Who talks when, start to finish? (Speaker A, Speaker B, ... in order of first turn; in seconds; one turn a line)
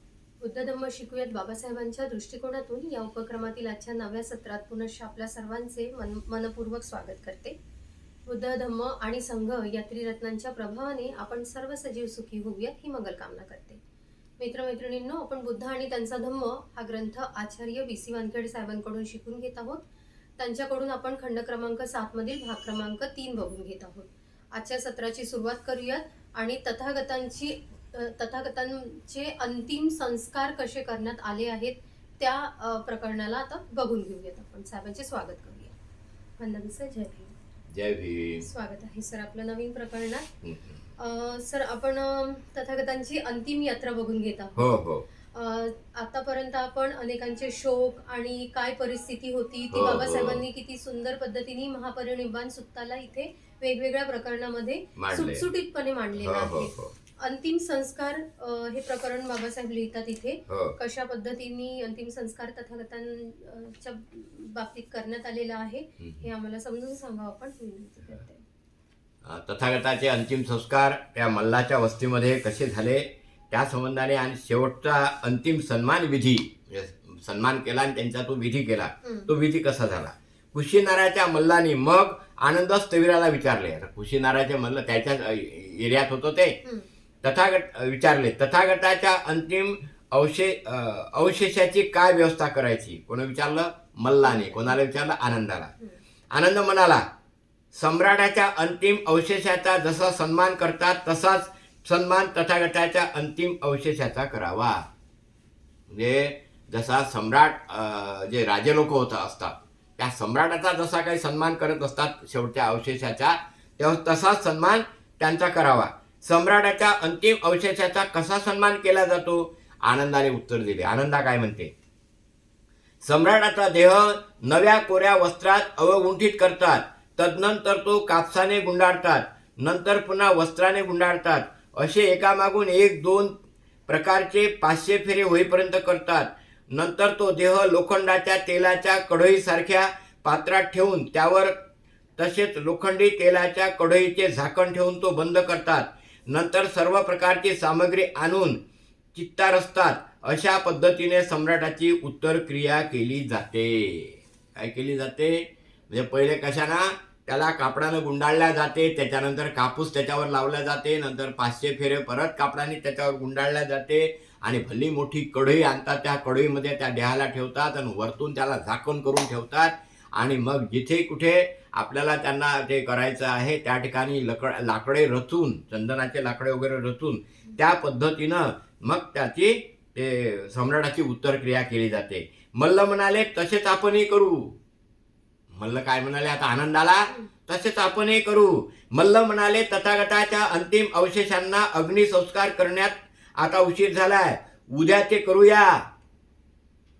Speaker A: 0.4-7.5
Speaker A: 8.3-13.8
Speaker A: 14.4-19.8
Speaker A: 20.4-35.7
Speaker A: 36.4-37.3
Speaker B: 37.7-38.4
Speaker A: 38.4-40.3
Speaker B: 40.4-40.8
Speaker A: 41.0-44.6
Speaker B: 44.6-45.0
Speaker A: 45.3-68.4
Speaker B: 49.7-50.4
Speaker B: 55.0-55.5
Speaker B: 56.2-56.9
Speaker B: 60.5-60.8
Speaker B: 66.0-66.2
Speaker B: 69.2-86.5
Speaker A: 79.0-79.3
Speaker B: 87.2-95.7
Speaker A: 94.2-94.8
Speaker B: 96.3-97.0
Speaker B: 97.7-104.8
Speaker B: 105.9-121.7
Speaker B: 123.0-133.3
Speaker B: 133.9-141.5
Speaker B: 142.2-148.6
Speaker B: 149.1-184.6
Speaker B: 185.5-195.8